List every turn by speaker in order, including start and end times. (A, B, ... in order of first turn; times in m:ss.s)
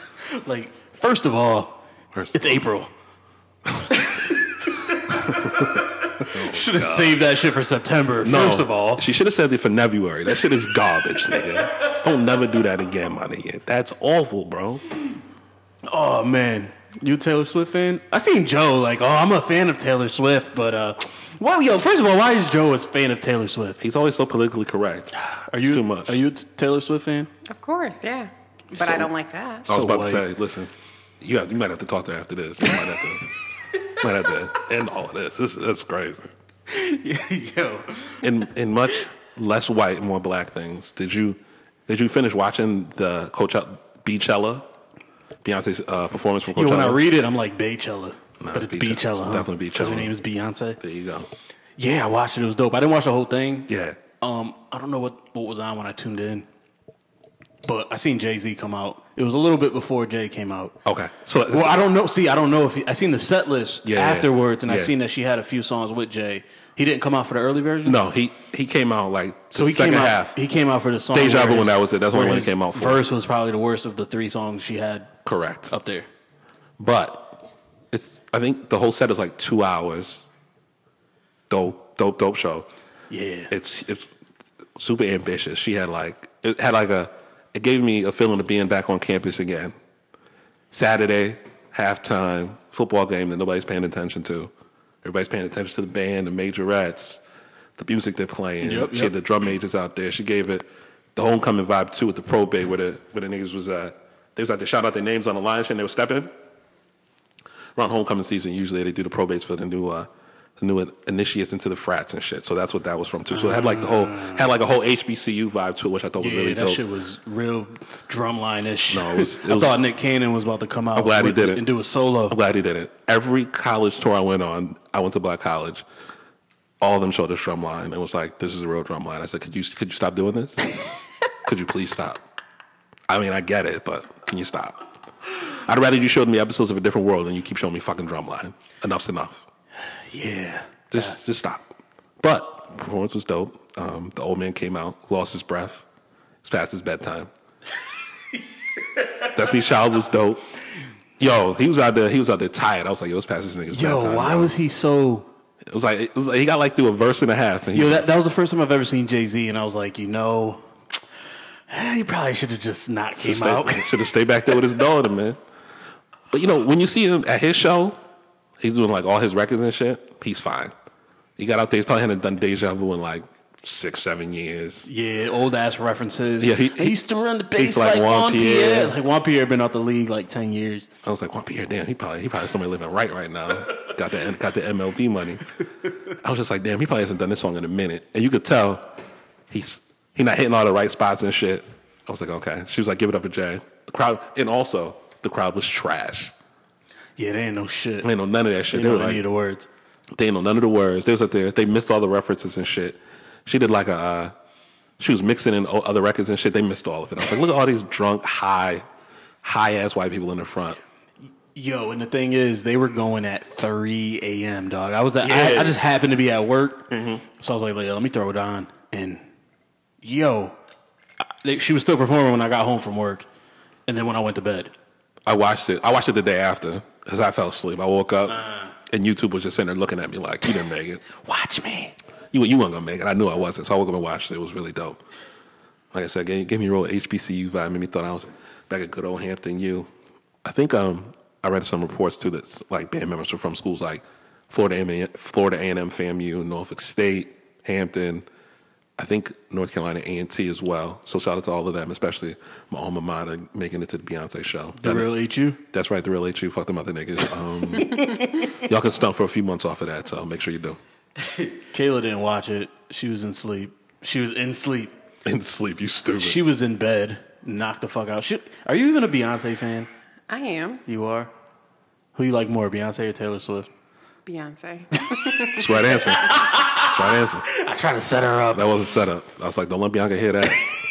0:00.3-0:01.8 A
0:02.1-0:02.6 B
0:02.3-0:02.9 A
0:03.8-0:09.0 A
0:05.1-0:07.2 B
0:08.2-0:14.8 B
0:15.8-0:23.8 A
0:23.8-0:26.2 B
0:25.1-0:27.3 A
0:27.5-0:29.7 C
0:28.8-0:29.1 B
0:29.6-0:33.3 B
0:29.7-0:30.3 A
0:33.8-0:36.3 B
0:36.7-0:38.2 A
0:38.2-0:44.7 B
0:45.4-0:47.0 B
0:46.5-0:50.8 A
0:48.4-0:50.1 B
0:50.8-0:51.3 B
0:51.8-0:56.5 A
0:53.7-0:54.0 B
0:57.6-1:00.8 A
1:00.8-1:01.9 B
1:01.5-1:08.0 A
1:03.8-1:04.9 B
1:07.8-1:10.4 B
1:09.5-1:15.1 A
1:11.1-1:13.0 B
1:15.2-1:15.8 B
1:15.7-1:16.1 A
1:16.8-1:20.2 B
1:21.5-1:22.7 B
1:23.1-1:23.5 A
1:23.5-1:24.1 B
1:24.8-1:29.8 B
1:30.7-1:34.5 B
1:35.0-1:37.2 B
1:37.8-1:46.3 B
1:38.6-1:39.1 A
1:47.8-1:56.8 B
1:53.3-1:54.4 A
1:56.2-2:02.4 A
1:58.9-1:59.8 B
2:00.9-2:01.6 B
2:02.3-2:05.8 B
2:06.8-2:10.7 B
2:11.4-2:12.2 B
2:13.1-2:19.5 B
2:20.1-2:21.2 A
2:20.9-2:25.8 B
2:26.4-2:27.3 B
2:29.2-2:30.4 B
2:31.2-2:34.5 B
2:33.7-2:35.3 A
2:35.6-2:38.1 B
2:37.7-2:40.7 A
2:41.7-2:44.1 A
2:43.2-2:45.4 B
2:46.3-2:48.0 B
2:48.6-2:50.7 B
2:51.4-2:54.9 B
2:54.9-3:00.9 A
2:56.4-2:57.0 B
2:57.6-2:59.0 B
3:01.0-3:08.9 B
3:09.5-3:16.3 B
3:17.2-3:18.1 A
3:18.0-3:19.2 B
3:18.7-3:19.7 A
3:20.1-3:24.3 B
3:25.0-3:28.8 B
3:29.4-3:30.8 B
3:31.5-3:39.2 A
3:35.2-3:35.8 B
3:36.9-3:37.2 B
3:40.0-3:40.6 A
3:41.2-3:43.2 A
3:43.9-3:44.7 A
3:45.2-3:51.0 B
3:48.3-3:48.7 A
3:51.1-3:51.9 A
3:52.3-3:55.0 B
3:55.9-3:59.9 B
4:00.4-4:08.2 B
4:09.0-4:15.1 B
4:14.8-4:15.6 A
4:15.7-4:20.8 B
4:21.3-4:24.9 A
4:25.2-4:26.4 B
4:26.2-4:29.9 A
4:30.3-4:30.8 C
4:30.9-4:31.3 A
4:32.1-4:33.7 A
4:34.2-4:35.7 C
4:35.5-4:37.4 B
4:35.9-4:38.8 A
4:38.5-4:40.7 B